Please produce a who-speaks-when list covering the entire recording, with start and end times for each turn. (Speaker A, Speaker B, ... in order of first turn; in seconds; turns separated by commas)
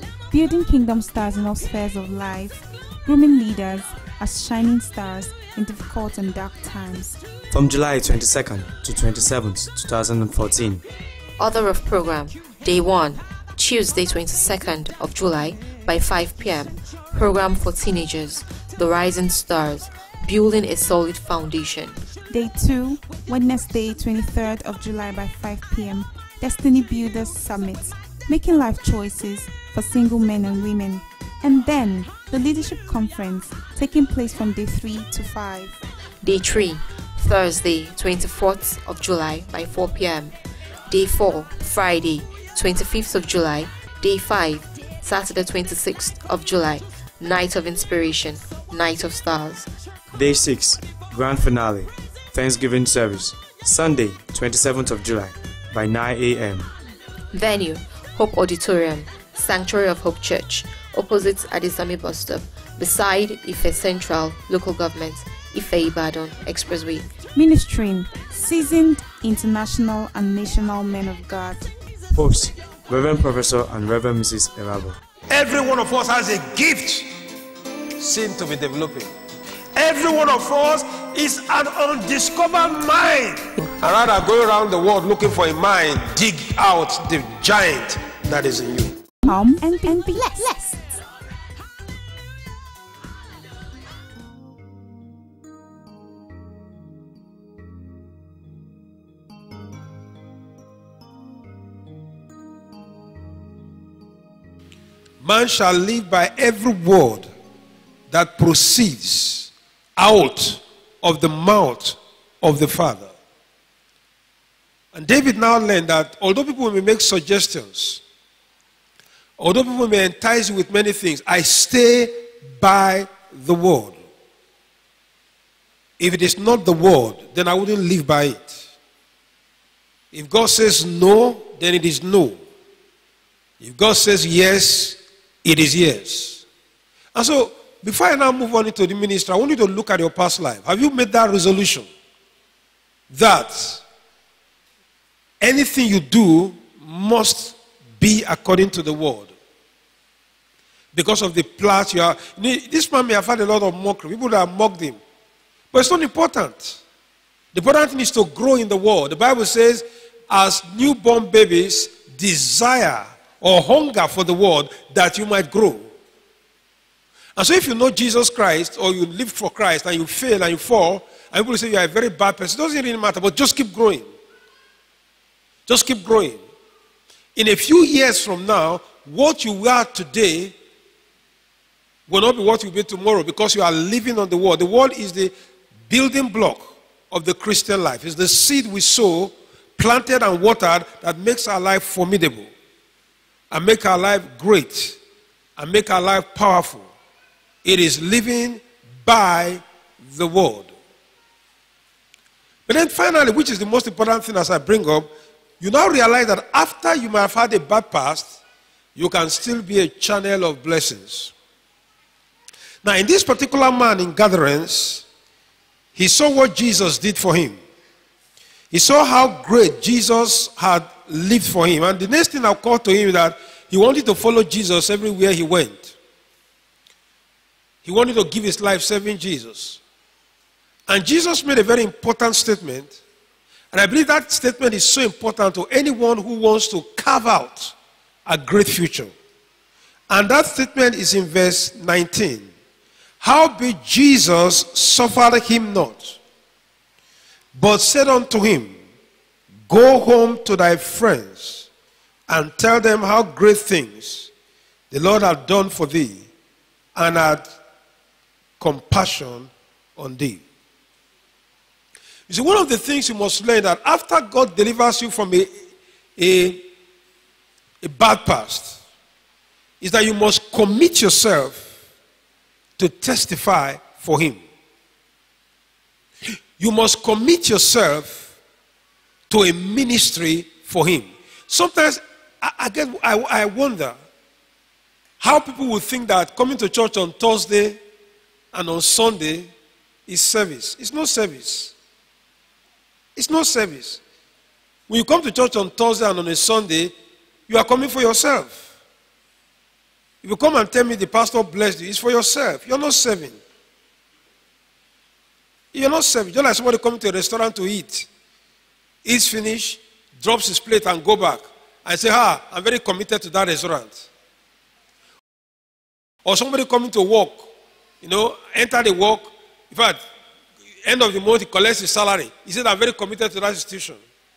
Speaker A: 0.3-7.2, Speaker B: 7.5-10.8, Speaker C: 11.4-22.0, Speaker A: 22.3-35.8, Speaker C: 36.2-40.3, Speaker C: 40.9-49.7, Speaker B: 50.1-56.7, Speaker C: 57.3-67.1, Speaker A: 67.3-71.7, Speaker B: 72.1-75.0, Speaker D: 75.3-77.1, Speaker D: 78.0-79.1, Speaker D: 79.7-89.0, Speaker A: 89.2-90.7, Speaker D: 105.2-107.3, Speaker D: 108.1-113.1, Speaker D: 114.9-118.0, Speaker D: 119.4-124.0, Speaker D: 126.0-128.6, Speaker D: 130.1-132.4, Speaker D: 133.6-136.4, Speaker D: 137.1-141.9, Speaker D: 143.1-143.8, Speaker D: 145.4-149.3, Speaker D: 150.9-155.0, Speaker D: 155.7-156.8, Speaker D: 157.5-165.9, Speaker D: 167.3-174.0, Speaker D: 175.7-176.4, Speaker D: 177.3-180.5, Speaker D: 182.1-185.3, Speaker D: 185.9-192.5, Speaker D: 193.5-195.0, Speaker D: 195.6-196.9, Speaker D: 197.6-200.7, Speaker D: 202.7-208.3, Speaker D: 208.9-211.3, Speaker D: 212.8-215.1, Speaker D: 215.9-217.6, Speaker D: 218.7-225.9, Speaker D: 227.8-229.8, Speaker D: 230.9-233.0, Speaker D: 233.7-237.7, Speaker D: 238.2-239.1, Speaker D: 240.1-242.5, Speaker D: 243.2-246.2, Speaker D: 247.5-248.8, Speaker D: 249.7-251.7, Speaker D: 252.3-254.3, Speaker D: 254.9-256.2, Speaker D: 256.9-257.5, Speaker D: 258.6-260.4, Speaker D: 262.3-265.5, Speaker D: 266.2-266.6, Speaker D: 267.8-268.8, Speaker D: 269.8-271.7, Speaker D: 272.8-274.4, Speaker D: 276.6-278.3, Speaker D: 279.3-283.9, Speaker D: 285.2-287.8, Speaker D: 288.5-289.5, Speaker D: 290.1-291.7, Speaker D: 293.1-294.0, Speaker D: 294.9-296.9, Speaker D: 297.5-298.6, Speaker D: 300.2-303.4, Speaker D: 305.7-308.1, Speaker D: 309.0-314.1, Speaker D: 316.2-317.5, Speaker D: 318.0-320.0, Speaker D: 320.8-324.0